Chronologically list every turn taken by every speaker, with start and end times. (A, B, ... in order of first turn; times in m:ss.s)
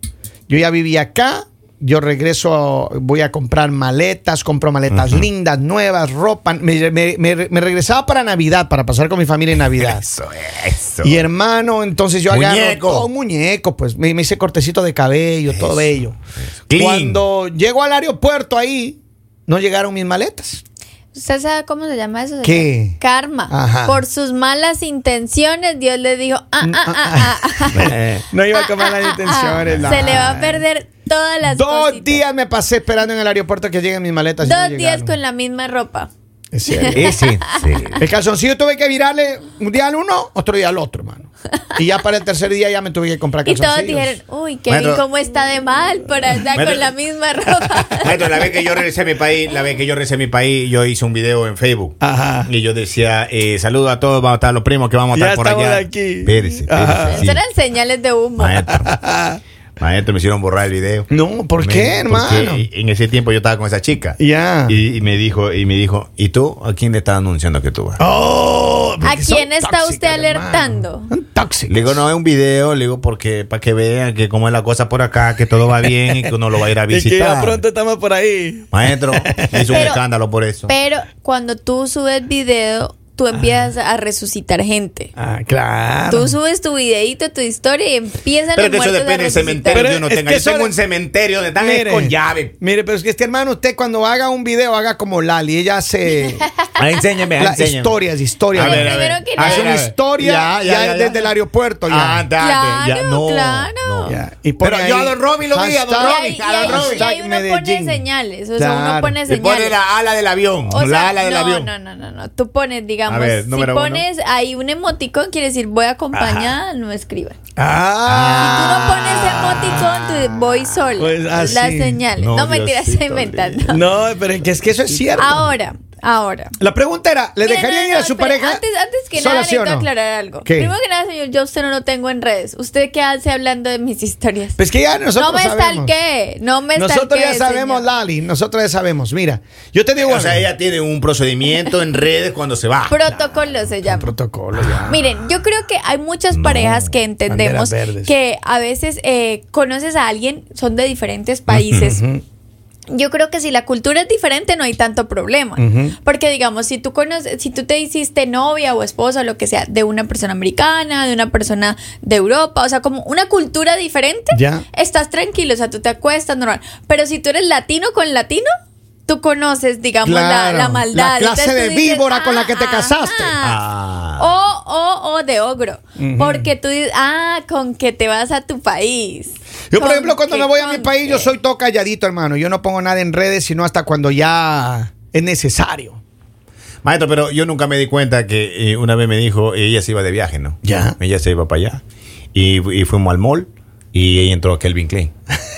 0:00.5-0:10.1 A
0:04.9-0:05.3 B
0:09.8-0:11.2 B
0:11.0-0:16.2 A
0:12.3-0:13.1 B
0:15.5-0:15.9 B
0:16.7-0:17.2 B
0:16.7-0:20.6 A
0:21.1-0:27.9 C
0:22.4-0:24.0 A
0:26.6-0:30.6 A
0:27.7-0:28.2 B
0:28.5-0:32.2 C
0:29.7-0:30.2 B
0:31.4-0:35.1 A
0:34.4-0:36.1 C
0:36.5-0:37.2 A
0:36.7-0:37.8 C
0:36.9-0:38.0 B
0:38.0-0:44.2 A
0:43.4-0:48.2 C
0:44.7-0:45.0 B
0:46.5-0:46.9 B
0:48.0-0:57.4 B
0:52.0-0:52.5 A
0:55.1-0:57.2 A
0:56.8-0:58.7 C
0:58.4-0:59.0 B
0:58.7-0:59.4 A
0:59.8-1:08.0 B
1:01.1-1:02.7 A
1:04.2-1:04.8 A
1:08.0-1:12.0 A
1:09.0-1:11.1 C
1:11.7-1:17.6 B
1:16.9-1:19.9 A
1:18.7-1:20.7 B
1:19.7-1:20.0 C
1:20.7-1:25.1 C
1:23.4-1:23.7 A
1:25.2-1:26.4 A
1:26.1-1:29.9 C
1:28.5-1:32.5 B
1:29.7-1:30.8 A
1:31.6-1:36.5 A
1:36.8-1:38.0 B
1:37.4-1:42.3 A
1:38.5-1:41.3 B
1:38.6-1:39.8 C
1:41.8-1:47.0 B
1:42.4-1:44.2 C
1:44.0-1:48.0 A
1:46.0-1:49.8 C
1:48.6-1:49.2 A
1:49.3-1:51.7 B
1:50.7-1:57.4 C
1:53.1-1:54.0 B
1:56.1-1:56.5 B
1:57.6-2:00.0 A
1:58.0-1:58.8 B
1:58.4-2:03.8 C
2:01.0-2:02.0 A
2:01.0-2:01.6 B
2:02.2-2:03.8 B
2:03.7-2:05.5 A
2:05.2-2:06.5 C
2:06.6-2:08.6 A
2:07.4-2:14.6 C
2:09.1-2:09.9 A
2:10.4-2:10.8 A
2:14.6-2:15.9 A
2:15.2-2:17.8 C
2:16.7-2:20.5 A
2:20.0-2:23.0 B
2:22.9-2:24.1 C
2:23.1-2:25.0 A
2:24.8-2:32.0 C
2:26.3-2:26.9 B
2:27.3-2:28.1 A
2:31.5-2:32.0 B
2:31.9-2:32.2 A
2:32.9-2:48.5 C
2:35.6-2:36.0 A
2:44.3-2:44.6 A
2:49.1-2:53.6 C
2:50.0-2:53.4 A
2:53.4-2:54.3 B
2:54.2-3:01.3 C
2:56.0-2:56.5 A
2:59.7-3:06.0 A
3:06.8-3:11.8 B
3:10.6-3:11.0 A
3:12.3-3:15.1 B